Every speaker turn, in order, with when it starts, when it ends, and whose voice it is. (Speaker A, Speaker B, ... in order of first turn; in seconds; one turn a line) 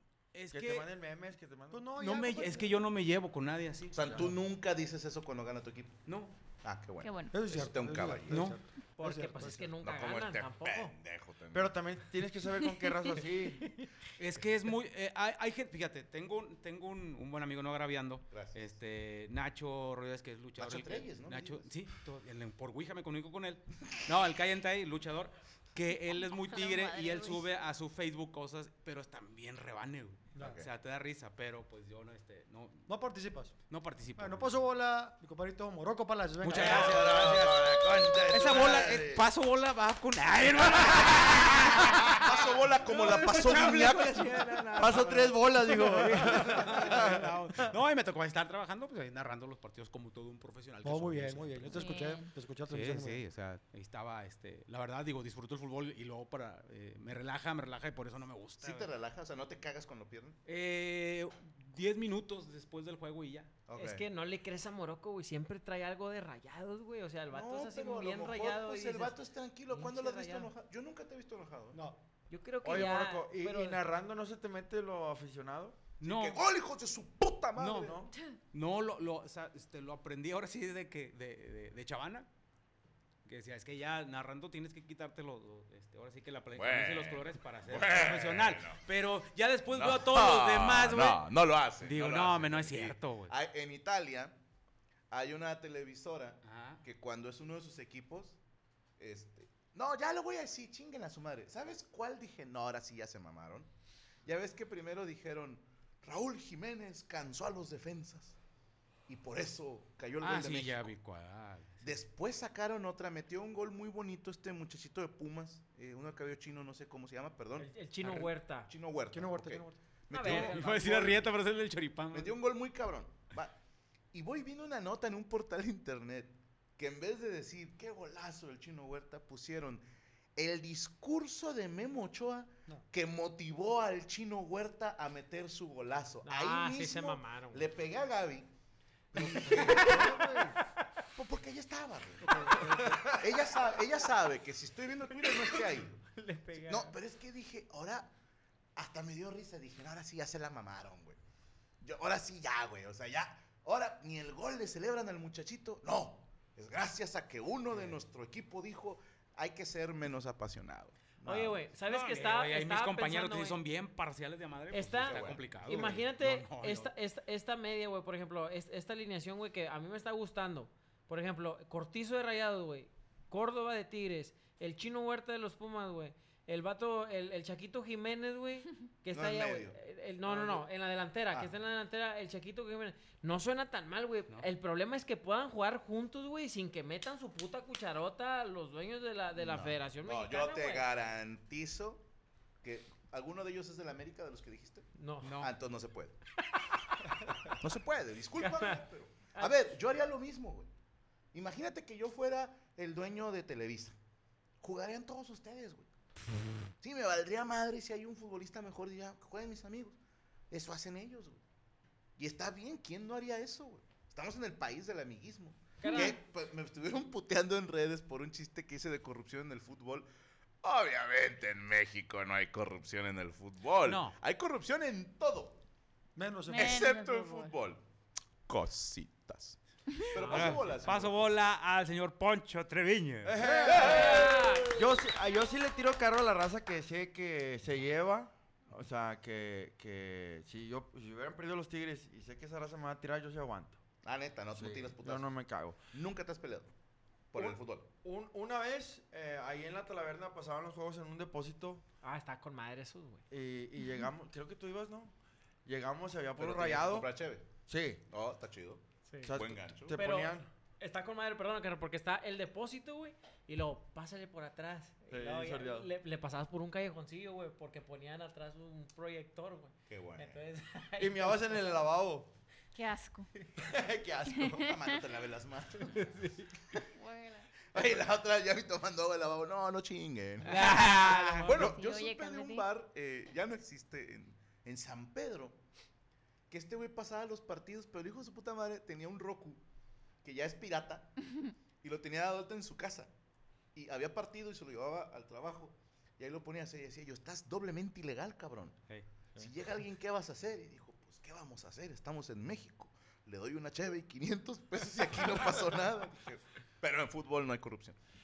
Speaker A: 0.3-0.9
Speaker B: 0.5-1.8
Speaker C: 1.7-2.8
Speaker A: 2.0-4.3
Speaker D: 3.9-6.0
Speaker B: 4.0-4.3
Speaker A: 6.1-6.4
Speaker D: 6.6-8.5
Speaker E: 7.0-7.3
Speaker C: 7.3-9.7
Speaker A: 8.3-8.6
Speaker F: 9.0-10.9
Speaker D: 9.8-11.8
Speaker B: 11.5-13.7
Speaker A: 14.2-32.9
Speaker D: 18.3-18.6
Speaker D: 20.6-21.7
Speaker E: 26.1-27.5
Speaker C: 30.4-30.6
Speaker D: 30.4-30.7
Speaker C: 32.9-33.6
Speaker A: 33.7-34.7
Speaker C: 34.2-37.1
Speaker A: 36.4-52.0
Speaker D: 36.5-39.2
Speaker D: 42.2-45.2
Speaker B: 44.8-47.6
Speaker C: 50.8-53.2
Speaker E: 51.6-52.3
Speaker A: 52.7-58.9
Speaker D: 58.6-60.4
Speaker A: 60.5-63.5
Speaker D: 63.7-64.0
Speaker F: 63.8-69.2
Speaker D: 67.3-71.8
Speaker F: 69.7-70.5
Speaker C: 71.7-72.0
Speaker F: 72.3-73.8
Speaker B: 72.6-75.8
Speaker A: 76.0-76.4
Speaker D: 76.0-78.0
Speaker A: 77.6-78.0
Speaker B: 77.8-78.1
Speaker A: 78.5-82.3
Speaker A: 83.2-91.2
Speaker D: 86.5-88.8
Speaker D: 89.7-94.4
Speaker A: 91.8-93.3
Speaker D: 95.1-98.4
Speaker A: 96.4-96.8
Speaker D: 99.0-103.7
Speaker D: 104.2-108.4
Speaker D: 109.1-110.9
Speaker A: 110.2-112.0
Speaker D: 111.8-121.3
Speaker F: 117.6-118.7
Speaker C: 119.1-119.8
Speaker F: 120.1-121.1
Speaker A: 120.2-122.4
Speaker D: 122.1-123.5
Speaker D: 124.1-129.8
Speaker D: 130.4-138.5
Speaker F: 136.2-137.7
Speaker D: 139.1-140.4
Speaker C: 139.1-140.6
Speaker F: 139.4-140.2
Speaker D: 141.2-142.5
Speaker F: 142.2-143.1
Speaker D: 143.1-146.0
Speaker F: 145.4-147.0
Speaker D: 146.6-148.1
Speaker D: 148.8-151.2
Speaker D: 151.8-161.6
Speaker A: 157.7-158.0
Speaker F: 161.2-163.6
Speaker A: 161.9-166.9
Speaker F: 164.7-190.9
Speaker D: 165.0-166.0
Speaker D: 179.1-180.7
Speaker D: 189.4-192.1
Speaker D: 192.6-194.9
Speaker F: 194.9-195.3
Speaker A: 195.2-195.5
Speaker D: 195.4-196.2
Speaker D: 197.6-200.7
Speaker F: 198.4-198.8
Speaker F: 199.3-199.7
Speaker D: 201.3-204.0
Speaker D: 204.6-205.9
Speaker D: 206.8-210.0
Speaker D: 210.5-211.4
Speaker D: 212.2-220.1
Speaker F: 215.8-216.2
Speaker D: 220.6-225.6
Speaker A: 223.8-224.2
Speaker C: 226.2-226.8
Speaker E: 226.5-227.5
Speaker D: 226.6-227.8
Speaker D: 228.5-231.3
Speaker F: 230.2-230.7
Speaker A: 230.2-233.4
Speaker B: 233.2-243.8
Speaker D: 233.6-234.8
Speaker F: 233.7-234.7
Speaker D: 244.0-245.3
Speaker B: 244.5-245.8
Speaker D: 245.9-246.7
Speaker D: 247.3-247.9
Speaker B: 247.3-251.8
Speaker F: 252.0-253.2
Speaker B: 253.3-255.1
Speaker B: 255.7-257.1
Speaker D: 256.4-257.5
Speaker B: 257.7-258.0
Speaker D: 258.1-260.0
Speaker F: 259.1-259.4
Speaker B: 259.2-260.5
Speaker F: 259.9-271.6
Speaker B: 265.1-265.9
Speaker D: 269.9-270.4
Speaker B: 271.0-272.3
Speaker E: 272.7-273.3
Speaker B: 273.6-274.7
Speaker E: 274.4-274.7
Speaker D: 274.6-276.2
Speaker F: 275.9-276.5
Speaker E: 276.9-277.5
Speaker D: 277.7-280.7
Speaker F: 280.4-281.6
Speaker A: 280.5-281.5
Speaker D: 281.4-285.6
Speaker E: 281.6-282.7
Speaker D: 286.5-289.6
Speaker D: 290.2-291.1
Speaker D: 291.8-293.1
Speaker D: 293.8-298.8
Speaker D: 299.4-308.0